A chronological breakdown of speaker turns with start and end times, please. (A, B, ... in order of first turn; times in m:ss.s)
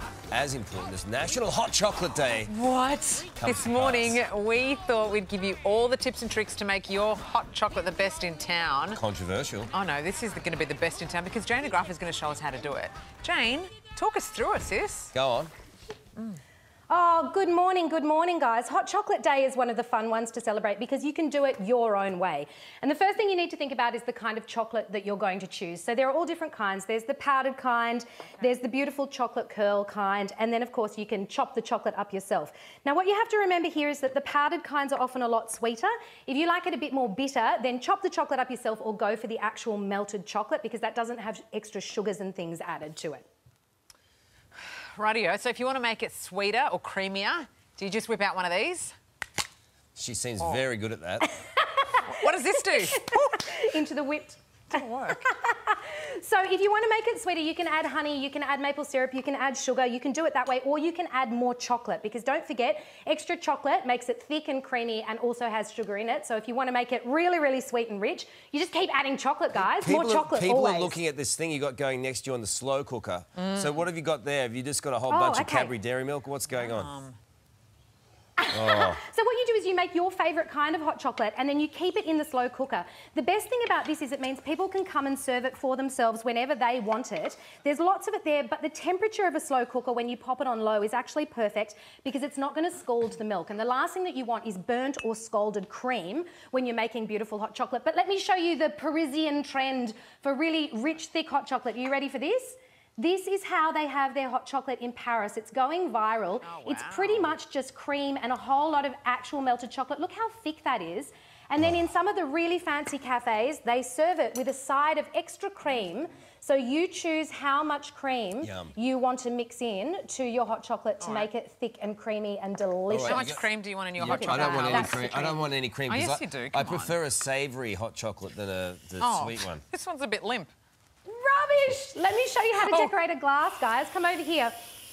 0:00.3-0:02.5 A
0:02.5-0:09.0 B
0:03.4-0:04.2 A
0:08.9-0:09.7 A
0:09.7-0:15.1 B
0:15.1-0:15.5 A
0:16.9-0:43.2 C
0:44.9-0:48.9 B
0:50.0-0:51.3 A
0:51.2-1:11.0 C
0:52.0-0:53.4 B
0:54.7-0:55.2 B
1:09.6-1:16.9 A
1:13.4-1:13.8 B
1:15.1-1:15.8 C
1:16.5-1:17.2 B
1:18.4-2:03.4 C
1:18.5-1:19.0 A
1:46.4-1:47.3 B
1:58.4-1:58.7 A
2:01.0-2:01.3 B
2:02.9-2:03.4 A
2:03.0-2:07.0 B
2:04.0-2:09.6 A
2:04.0-2:05.4 C
2:09.0-2:10.5 B
2:11.0-2:14.5 C
2:12.6-2:12.9 B